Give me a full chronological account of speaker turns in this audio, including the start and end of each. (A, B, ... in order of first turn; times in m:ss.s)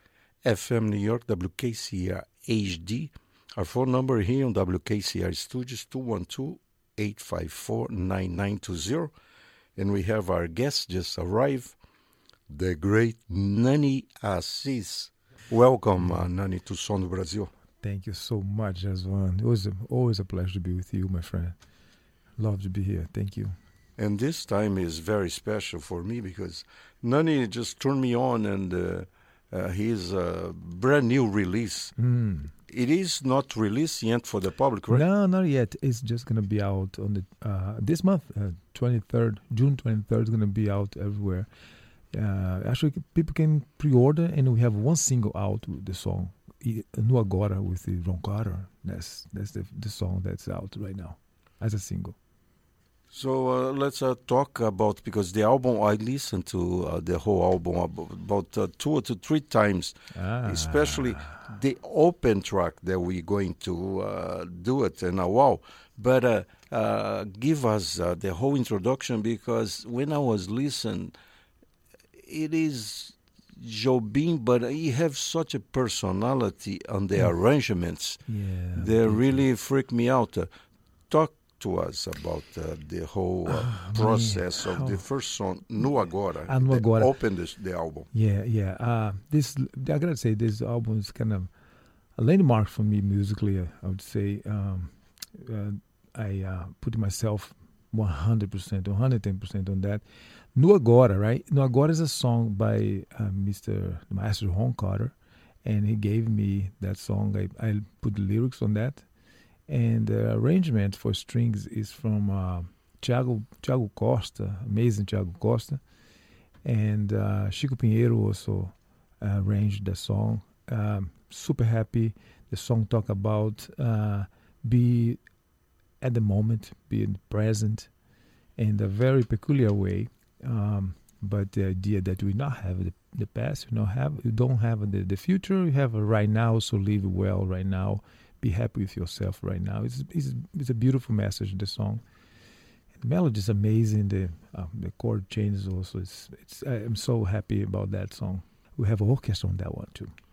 0:00.4-0:09.1 A
0:09.8-0:11.8 A
0:12.5-0:17.5 A
0:17.8-0:21.6 B
0:22.4-0:23.6 B
0:24.0-0:31.9 A
0:32.0-0:32.5 B
0:32.7-0:35.0 A
0:34.9-0:41.5 B
0:42.1-0:52.2 B
0:53.1-1:11.2 A
1:00.1-1:01.5 B
1:12.2-1:18.2 A
1:18.2-1:19.4 B
1:18.7-1:20.5 A
1:21.1-1:28.1 A
1:23.5-1:25.0 B
1:26.5-1:27.1 B
1:28.1-1:31.5 B
1:32.2-1:40.0 B
1:40.6-1:49.0 B
1:49.7-1:55.8 B
1:56.6-2:05.2 B
2:06.0-2:07.9 B
2:08.6-2:22.0 B
2:23.0-2:30.1 B